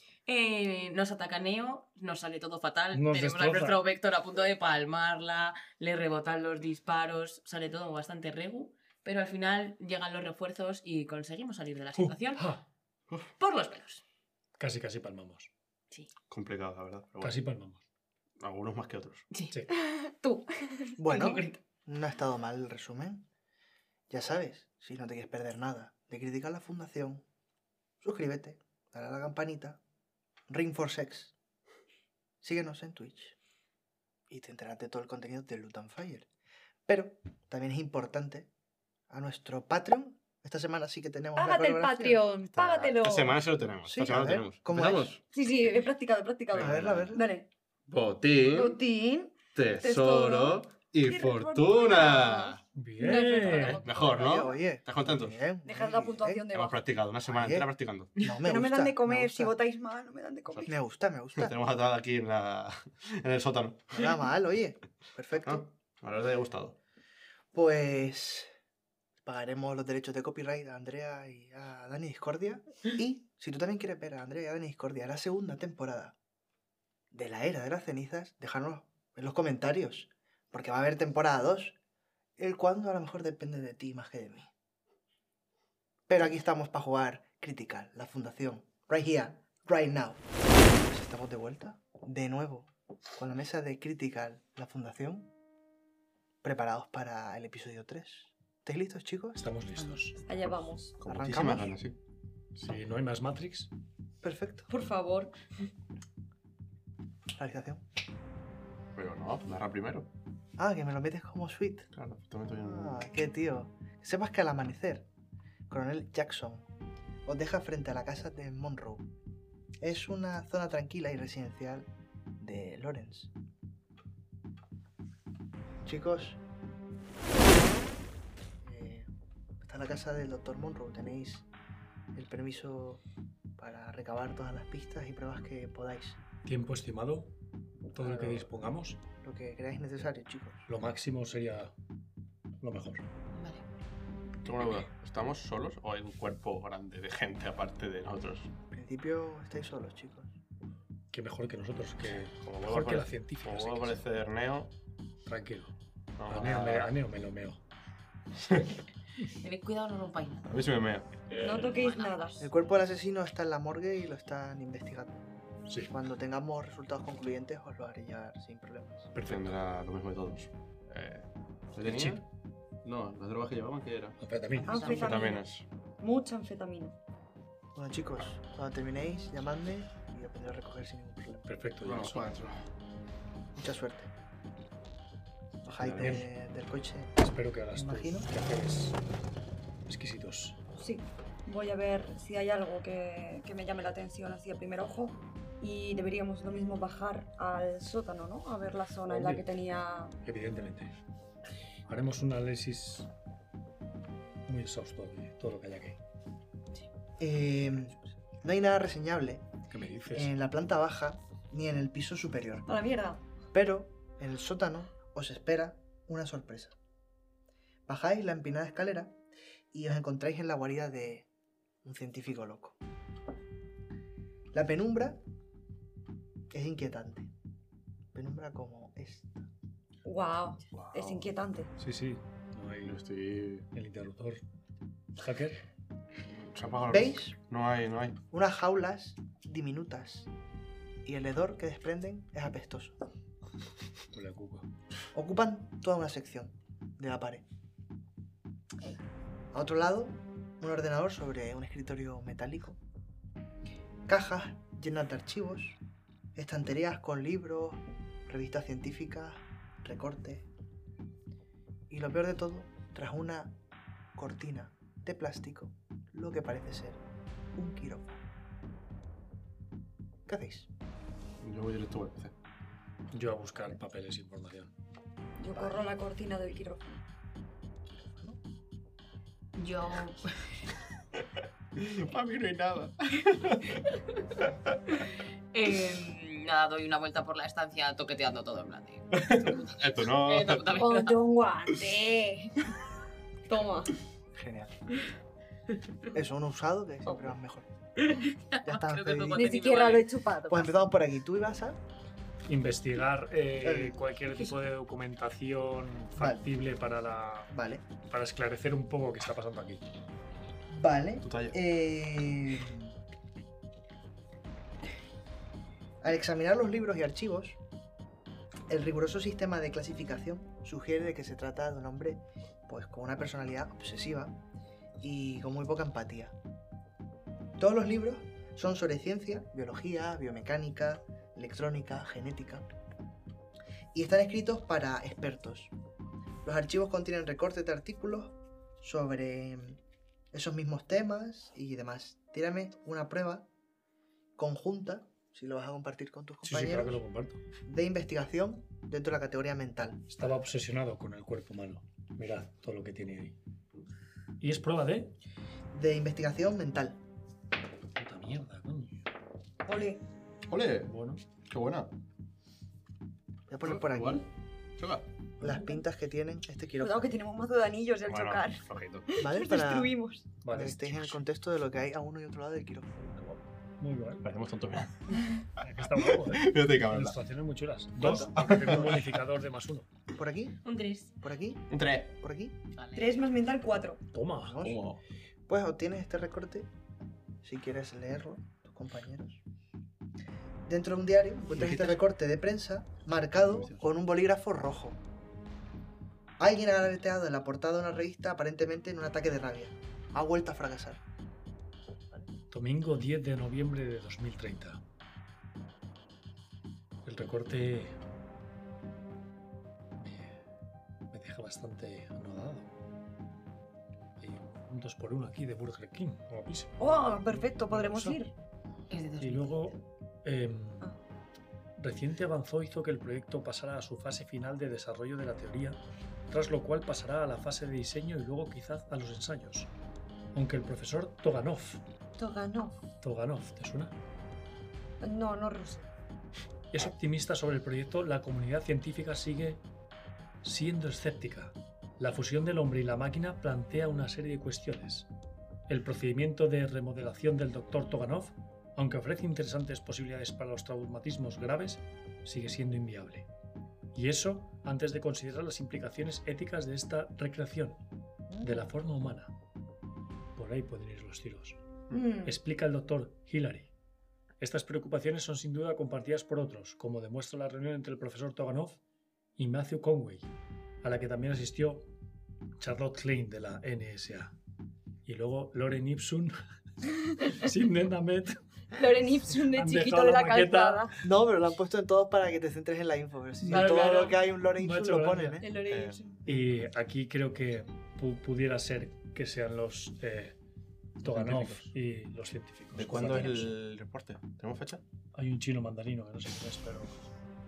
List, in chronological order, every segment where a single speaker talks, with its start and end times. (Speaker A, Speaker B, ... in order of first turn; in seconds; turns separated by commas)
Speaker A: 0.2-12.5, Speaker B: 2.9-3.8, Speaker B: 12.0-12.6, Speaker A: 13.4-14.0, Speaker B: 14.6-15.5, Speaker C: 16.3-17.4, Speaker B: 17.2-17.8, Speaker C: 18.4-19.2, Speaker D: 19.7-21.0, Speaker E: 21.0-23.2, Speaker A: 21.1-21.6, Speaker E: 24.1-27.2, Speaker E: 28.0-29.8, Speaker E: 30.5-31.3, Speaker E: 32.4-33.4, Speaker E: 34.3-36.3, Speaker E: 36.9-38.5, Speaker E: 39.1-42.2, Speaker D: 41.4-43.4, Speaker C: 42.5-45.2, Speaker E: 43.8-45.1, Speaker D: 45.3-47.5, Speaker E: 46.5-47.2, Speaker C: 46.5-47.2, Speaker C: 47.9-48.8, Speaker D: 48.4-54.0, Speaker C: 49.5-52.6, Speaker B: 52.7-53.8, Speaker A: 53.0-53.8, Speaker C: 53.6-55.4, Speaker E: 54.0-56.5, Speaker D: 55.6-56.8, Speaker C: 56.5-58.2, Speaker E: 57.2-59.5, Speaker D: 58.4-60.7, Speaker E: 60.6-61.5, Speaker C: 61.3-64.0, Speaker E: 63.9-65.7, Speaker C: 65.4-66.8, Speaker E: 67.5-68.5, Speaker E: 69.2-76.2, Speaker E: 77.1-81.8, Speaker E: 82.4-84.5, Speaker E: 86.1-95.3, Speaker E: 96.4-99.5, Speaker B: 99.3-100.2, Speaker D: 100.2-100.9, Speaker C: 101.0-102.0, Speaker E: 101.1-101.7, Speaker B: 102.5-103.7, Speaker E: 104.2-104.7, Speaker D: 104.7-105.3, Speaker E: 107.3-107.8, Speaker C: 108.9-110.1, Speaker E: 110.6-111.9, Speaker C: 111.9-113.0, Speaker E: 112.6-115.1, Speaker E: 115.7-116.7, Speaker E: 117.2-119.1, Speaker E: 119.8-121.9, Speaker E: 122.4-123.3, Speaker E: 125.8-126.4, Speaker E: 128.6-129.1, Speaker E: 129.6-131.4, Speaker E: 132.1-133.0, Speaker E: 133.6-136.2, Speaker B: 136.4-137.3, Speaker B: 137.9-139.0, Speaker E: 138.0-138.5, Speaker E: 139.2-140.7, Speaker B: 140.7-141.7, Speaker B: 142.6-143.0, Speaker A: 143.3-143.7, Speaker C: 144.4-148.5, Speaker E: 148.7-150.3, Speaker B: 151.1-154.0, Speaker C: 152.2-154.7, Speaker B: 155.2-155.7, Speaker C: 156.2-156.9, Speaker B: 156.3-157.6, Speaker C: 158.4-158.7, Speaker A: 159.4-160.4, Speaker C: 160.4-161.1, Speaker A: 161.3-162.5, Speaker D: 161.4-162.3, Speaker E: 162.4-165.2, Speaker B: 165.7-165.9, Speaker E: 165.9-169.1, Speaker B: 169.1-169.5, Speaker C: 169.2-172.2, Speaker B: 171.8-172.2, Speaker C: 172.8-174.2, Speaker B: 174.2-174.9, Speaker A: 174.6-175.2, Speaker D: 174.7-175.5, Speaker C: 174.7-175.6, Speaker D: 176.0-176.9, Speaker E: 177.7-181.5, Speaker B: 181.4-182.3, Speaker C: 181.8-182.5, Speaker E: 183.6-184.1, Speaker E: 185.6-187.1, Speaker C: 185.6-186.2, Speaker B: 186.0-186.3, Speaker B: 187.2-189.0, Speaker E: 187.7-188.3, Speaker B: 189.8-190.6, Speaker D: 190.8-200.1, Speaker B: 199.1-199.4, Speaker B: 200.2-200.9, Speaker B: 201.9-203.1, Speaker B: 204.4-206.0, Speaker E: 207.2-209.5, Speaker B: 209.7-210.3, Speaker E: 210.1-212.7, Speaker D: 212.7-213.2, Speaker E: 213.5-216.8, Speaker E: 217.9-219.2, Speaker E: 219.7-221.3, Speaker E: 221.8-222.8, Speaker E: 224.5-225.2, Speaker E: 226.5-227.3, Speaker E: 228.1-229.5, Speaker D: 230.0-231.7, Speaker C: 230.7-231.3, Speaker B: 231.8-233.0, Speaker C: 232.8-233.7, Speaker B: 233.7-234.4, Speaker B: 235.2-235.6, Speaker C: 236.3-238.2, Speaker E: 236.9-237.3, Speaker E: 238.3-240.3, Speaker E: 241.0-243.0, Speaker B: 244.1-244.7, Speaker E: 245.1-247.4, Speaker E: 249.5-252.8, Speaker E: 254.1-255.8, Speaker E: 256.3-260.5, Speaker E: 261.9-263.6, Speaker E: 264.1-267.0, Speaker E: 267.5-268.2, Speaker E: 270.3-270.7, Speaker C: 271.4-272.3, Speaker B: 273.1-274.7, Speaker D: 275.4-277.0, Speaker E: 275.5-275.9, Speaker A: 279.5-280.7, Speaker C: 281.7-283.8, Speaker C: 284.4-284.7, Speaker A: 285.5-291.2, Speaker C: 289.1-290.7, Speaker D: 290.8-292.7, Speaker D: 293.5-294.0, Speaker E: 294.3-294.8, Speaker E: 296.1-297.7, Speaker A: 298.0-300.1, Speaker E: 298.6-299.5, Speaker D: 299.3-300.7, Speaker E: 300.5-301.8, Speaker B: 302.5-307.5, Speaker E: 303.6-304.0, Speaker E: 306.1-306.4, Speaker E: 307.5-307.8, Speaker B: 308.1-309.9, Speaker E: 310.7-312.9, Speaker C: 311.2-311.6, Speaker E: 316.0-317.6, Speaker E: 318.7-324.4, Speaker E: 325.0-326.3, Speaker E: 327.6-332.7, Speaker E: 333.9-335.7, Speaker E: 336.4-339.8, Speaker E: 340.3-343.5, Speaker E: 344.4-347.0, Speaker B: 346.4-347.4, Speaker E: 347.6-350.1, Speaker B: 350.1-353.3, Speaker B: 354.4-355.1, Speaker E: 355.7-357.0, Speaker B: 357.9-359.1, Speaker D: 359.6-360.0, Speaker C: 360.5-361.9, Speaker B: 360.9-361.2, Speaker E: 363.5-364.3, Speaker C: 363.6-365.1, Speaker E: 365.4-367.2, Speaker D: 366.8-370.2, Speaker C: 368.1-369.2, Speaker E: 369.2-369.9, Speaker B: 370.4-371.2, Speaker E: 370.5-373.1, Speaker B: 373.0-374.3, Speaker C: 374.2-374.9, Speaker B: 375.6-379.9, Speaker C: 375.9-377.2, Speaker E: 378.0-378.5, Speaker C: 378.4-379.1, Speaker E: 380.1-380.6, Speaker A: 380.6-381.1, Speaker E: 381.2-382.6, Speaker C: 381.7-382.1, Speaker A: 382.8-383.2, Speaker D: 382.9-384.0, Speaker B: 384.1-384.6, Speaker E: 384.4-384.8, Speaker C: 384.6-385.0, Speaker E: 385.5-386.7, Speaker E: 387.4-389.4, Speaker E: 390.6-395.0, Speaker C: 391.5-392.0, Speaker C: 393.3-393.8, Speaker E: 396.4-401.0, Speaker B: 402.5-404.8, Speaker B: 407.0-408.0, Speaker B: 410.0-410.4, Speaker B: 411.1-412.7, Speaker B: 414.2-418.2, Speaker D: 416.8-418.3, Speaker A: 418.9-419.8, Speaker B: 419.2-420.9, Speaker B: 421.8-429.7, Speaker B: 430.3-431.8, Speaker D: 432.2-432.8, Speaker B: 433.0-433.9, Speaker D: 435.0-435.9, Speaker B: 436.7-439.6, Speaker B: 440.4-445.1, Speaker B: 445.7-453.3, Speaker B: 453.9-457.8, Speaker D: 458.3-458.7, Speaker B: 458.4-459.3, Speaker B: 460.3-461.6, Speaker D: 461.9-462.4, Speaker B: 462.2-463.7, Speaker B: 464.4-468.8, Speaker B: 469.4-470.3, Speaker B: 470.8-471.9, Speaker B: 472.6-474.3, Speaker B: 475.0-476.4, Speaker B: 477.2-478.4, Speaker D: 478.7-480.9, Speaker B: 479.4-480.9, Speaker E: 481.0-485.5, Speaker B: 483.4-485.5, Speaker D: 483.5-484.0, Speaker D: 485.4-486.2, Speaker C: 485.6-486.1, Speaker B: 486.2-490.4, Speaker B: 491.0-493.5, Speaker C: 491.0-491.7, Speaker C: 492.8-494.8, Speaker B: 495.1-496.9